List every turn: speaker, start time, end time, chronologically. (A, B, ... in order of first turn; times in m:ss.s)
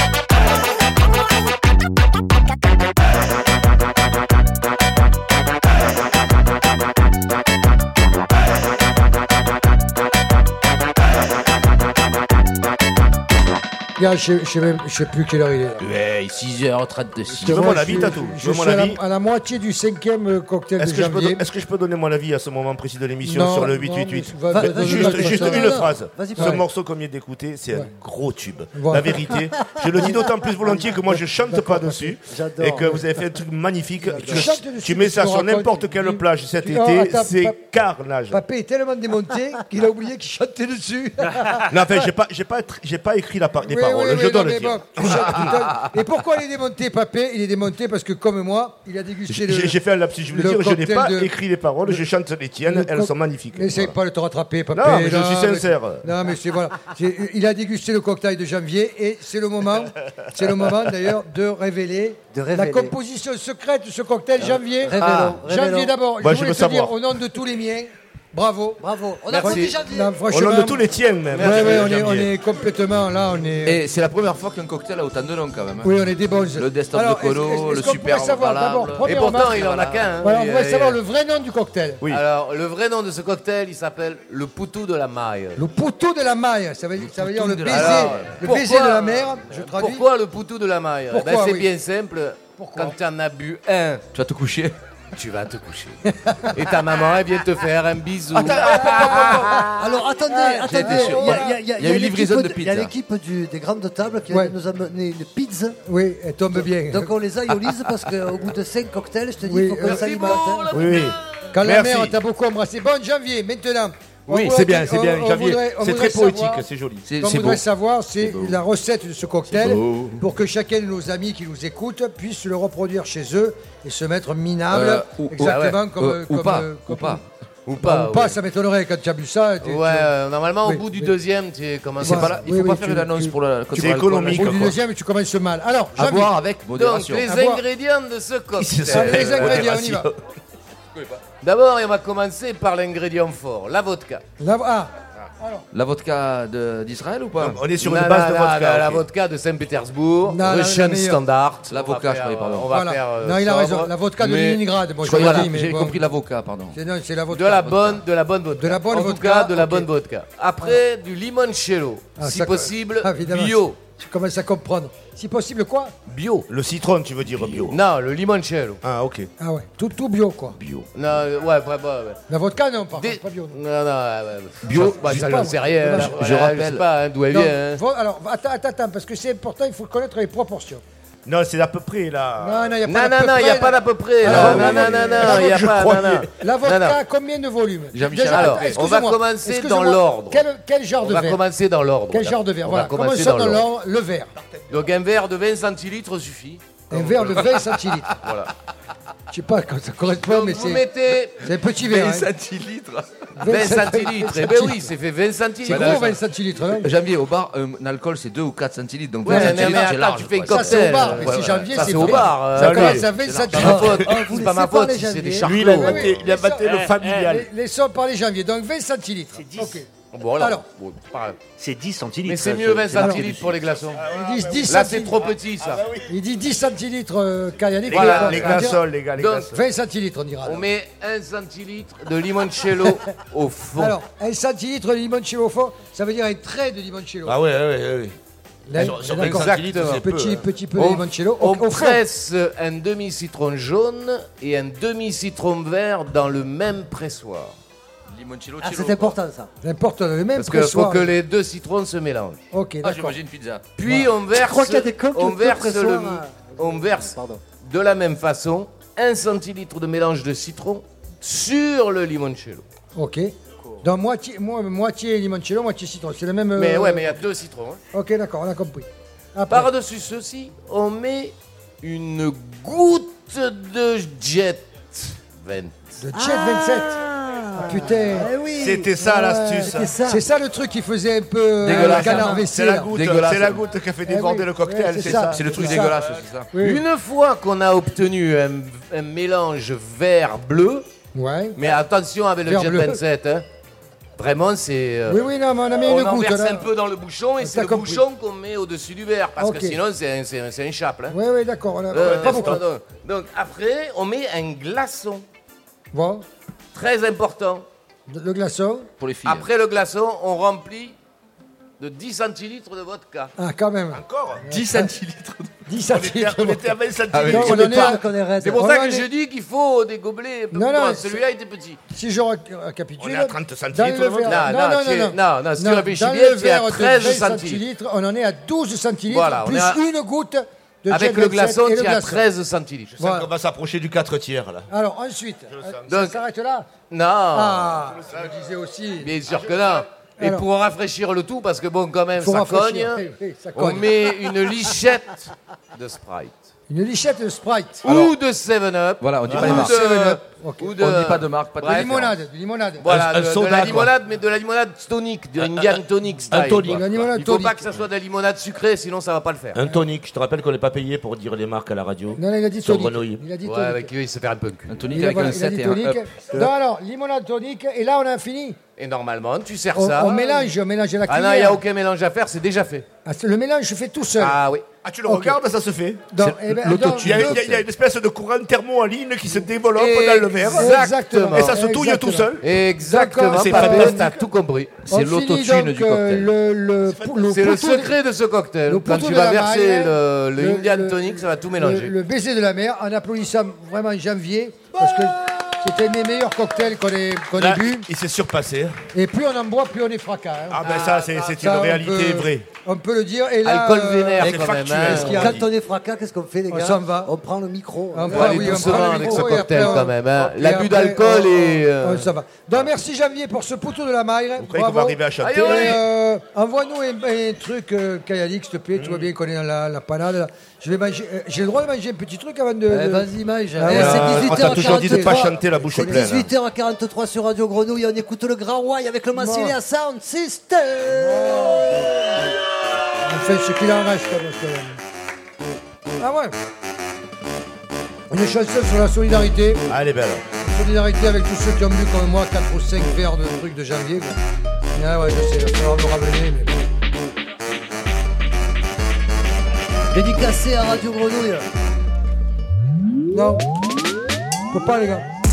0:14.0-0:15.8 A
0:15.8-0:18.0 B
0:17.3-0:21.4 A
0:17.4-0:19.0 C
0:20.8-0:38.4 C
0:23.2-0:25.8 A
0:24.5-0:26.6 D
0:26.4-0:26.6 A
0:28.8-0:29.4 A
0:30.9-0:32.2 A
0:32.3-0:33.2 D
0:34.0-0:34.6 D
0:34.2-0:37.6 A
0:38.3-0:42.0 A
0:41.7-0:45.6 C
0:43.6-0:49.8 A
0:49.3-0:54.0 C
0:50.3-0:51.3 A
0:52.7-1:08.8 A
0:54.7-0:56.1 C
1:02.3-1:03.0 D
1:04.5-1:06.0 D
1:06.2-1:07.0 C
1:08.8-1:10.2 D
1:09.3-1:09.8 E
1:09.3-1:13.8 A
1:10.3-1:12.3 C
1:11.4-1:11.9 E
1:13.7-1:16.0 B
1:15.8-1:19.7 A
1:16.5-1:20.1 B
1:19.0-1:21.0 E
1:20.2-1:22.0 A
1:22.1-1:25.6 E
1:25.6-1:30.1 A
1:27.0-1:28.4 B
1:27.7-1:34.0 E
1:31.1-1:31.7 A
1:32.6-1:33.0 A
1:34.1-1:34.8 B
1:35.2-1:36.0 E
1:36.1-1:36.5 A
1:36.5-1:39.4 E
1:38.4-1:39.7 B
1:38.7-1:39.7 A
1:39.8-1:45.8 D
1:40.3-1:41.6 A
1:40.6-1:42.9 B
1:44.3-1:44.6 A
1:45.9-1:47.1 A
1:46.6-1:50.9 D
1:49.4-1:50.5 A
1:49.8-1:51.1 E
1:50.7-1:52.2 C
1:51.5-1:56.6 A
1:54.3-1:57.1 C
1:57.1-1:57.6 B
1:57.2-2:07.2 A
1:58.2-1:58.6 B
1:59.5-2:00.2 B
2:04.7-2:07.2 B
2:05.4-2:05.8 E
2:07.7-2:08.4 E
2:07.8-2:10.1 A
2:09.6-2:12.5 E
2:10.6-2:11.1 A
2:12.0-2:14.6 B
2:12.0-2:16.4 A
2:13.7-2:14.8 C
2:16.0-2:17.3 B
2:16.7-2:19.6 E
2:17.2-2:17.6 A
2:18.6-2:20.2 C
2:18.8-2:20.1 A
2:21.4-2:24.2 E
2:24.4-2:25.6 A
2:25.7-2:27.6 B
2:27.4-2:29.0 C
2:27.8-2:33.9 E
2:30.2-2:31.2 A
2:31.7-2:32.7 B
2:32.7-2:36.0 A
2:34.2-2:36.8 B
2:35.2-2:35.5 E
2:36.7-2:37.8 A
2:37.3-2:43.8 E
2:37.7-2:38.0 B
2:38.5-2:39.9 A
2:42.2-2:46.0 A
2:46.1-2:46.5 E
2:46.5-2:47.8 C
2:47.7-2:48.8 E
2:48.8-2:49.3 C
2:49.4-2:50.6 A
2:51.0-2:52.2 E
2:52.3-2:53.6 A
2:53.0-2:57.8 E
2:54.6-2:56.8 B
2:54.8-2:56.2 A
2:57.3-3:00.8 A
3:01.2-3:02.7 C
3:02.4-3:05.6 A
3:02.9-3:07.0 E
3:04.2-3:06.3 C
3:06.4-3:11.4 A
3:07.9-3:08.8 B
3:08.3-3:10.4 E
3:11.0-3:13.6 E
3:12.1-3:14.3 A
3:14.7-3:17.1 E
3:16.9-3:18.2 A
3:18.2-3:18.5 B
3:19.3-3:20.9 A
3:20.2-3:21.4 E
3:21.4-3:22.3 A
3:21.8-3:23.0 B
3:23.4-3:24.9 A
3:23.5-3:26.1 E
3:25.6-3:26.9 A
3:25.7-3:26.2 B
3:26.8-3:31.7 B
3:29.2-3:36.1 E
3:29.3-3:40.7 A
3:32.5-3:33.1 C
3:33.0-3:33.8 B
3:33.6-3:35.8 D
3:35.4-3:37.5 C
3:39.4-3:39.8 F
3:40.1-3:41.4 E
3:41.6-3:43.6 F
3:42.3-3:44.0 E
3:43.0-3:43.3 A
3:44.0-3:44.9 C
3:44.0-3:45.2 A
3:44.7-3:45.8 E
3:45.6-3:46.1 C
3:46.0-3:48.8 A
3:47.9-3:49.6 C
3:47.9-3:48.6 E
3:49.2-3:49.5 E
3:49.5-3:50.7 A
3:50.4-3:54.0 E
3:53.8-3:57.4 A
3:57.3-3:58.2 C
3:58.7-4:02.0 A
3:58.7-4:00.4 C
3:59.1-3:59.4 B
3:59.3-4:00.1 E
4:00.8-4:07.6 E
4:08.1-4:09.2 B
4:08.6-4:09.5 D
4:09.6-4:11.1 A
4:10.4-4:12.4 E
4:12.5-4:13.2 A
4:12.8-4:13.7 B
4:13.8-4:22.6 E
4:14.3-4:17.4 D
4:23.0-4:27.2 A
4:26.6-4:27.8 E
4:27.9-4:29.7 A
4:29.5-4:35.9 E
4:36.0-4:37.0 A
4:36.1-4:40.2 D
4:37.6-4:38.3 A
4:38.6-4:39.9 C
4:39.6-4:42.9 A
4:41.6-4:43.6 B
4:41.8-4:45.5 C
4:44.0-4:46.0 A
4:45.0-4:46.5 B
4:46.5-4:46.8 A
4:46.6-4:50.9 E
4:51.1-4:51.6 A
4:51.6-4:53.4 E
4:52.4-4:53.0 A
4:54.2-4:55.3 E
4:55.0-4:56.7 A
4:55.8-5:01.2 E
4:57.4-4:58.0 A
4:59.4-4:59.8 A
5:01.1-5:02.6 A
5:01.9-5:05.2 E
5:02.0-5:02.6 C
5:05.9-5:06.2 A
5:06.7-5:07.7 E
5:08.1-5:08.9 A
5:09.0-5:09.5 B
5:09.2-5:11.0 E
5:11.8-5:13.3 E
5:13.4-5:14.9 A
5:13.9-5:14.4 C
5:14.5-5:15.5 B
5:15.7-5:16.7 A
5:15.9-5:18.0 C
5:17.1-5:18.0 B
5:17.3-5:19.1 A
5:18.0-5:18.6 D
5:18.4-5:21.8 E
5:20.5-5:21.2 A
5:21.9-5:32.3 A
5:23.0-5:24.5 C
5:24.3-5:27.6 E
5:29.1-5:29.8 E
5:30.9-5:33.0 E
5:33.0-5:34.7 C
5:33.0-5:33.3 A
5:34.7-5:36.7 A
5:35.5-5:35.9 C
5:35.9-5:36.2 E
5:36.9-5:37.8 E
5:37.3-5:39.1 A
5:37.9-5:38.3 C
5:39.0-5:43.0 E
5:39.3-5:39.8 C
5:40.2-5:40.5 A
5:42.2-5:44.2 A
5:43.6-5:46.4 E
5:46.7-5:47.8 A
5:47.8-5:52.0 E
5:47.9-5:48.1 B
5:49.0-5:49.8 B
5:49.3-5:50.8 A
5:50.8-5:52.1 B
5:51.6-5:52.9 A
5:52.8-5:59.6 E
5:52.9-5:53.9 C
5:56.3-5:57.1 C
5:56.4-5:57.7 A
5:59.6-6:03.2 C
6:02.2-6:03.9 A
6:03.4-6:04.8 E
6:04.7-6:06.1 B
6:04.9-6:08.6 A
6:08.8-6:10.5 E
6:09.7-6:11.6 A
6:11.1-6:12.9 E
6:13.0-6:14.4 A
6:14.2-6:14.6 E
6:14.8-6:16.1 C
6:15.1-6:15.4 A
6:16.1-6:17.5 A
6:16.2-6:17.6 B
6:16.9-6:22.5 C
6:19.8-6:21.5 E
6:20.4-6:24.1 A
6:22.4-6:24.9 E
6:23.3-6:24.3 C
6:24.9-6:26.3 B
6:24.9-6:28.0 A
6:26.9-6:27.3 C
6:27.3-6:31.9 E
6:28.6-6:37.9 A
6:37.4-6:38.8 C
6:38.9-6:45.4 A
6:40.5-6:42.5 C
6:40.6-6:41.4 E
6:43.5-6:45.3 E
6:44.2-6:45.5 C
6:44.9-6:49.7 D
6:46.5-6:47.1 A
6:47.9-7:06.0 A
6:48.1-6:52.1 E
6:54.4-6:55.8 C
6:55.2-6:55.8 E
6:58.8-6:59.1 C
7:02.7-7:11.8 D
7:03.7-7:06.3 C
7:09.1-7:09.6 A
7:10.9-7:11.9 A
7:13.0-7:14.8 A
7:16.0-7:16.4 A
7:18.1-7:19.6 A
7:19.7-7:20.2 C
7:20.4-7:24.2 A
7:24.7-7:26.5 A
7:29.9-7:31.5 D
7:33.1-7:33.4 A
7:34.5-7:35.1 A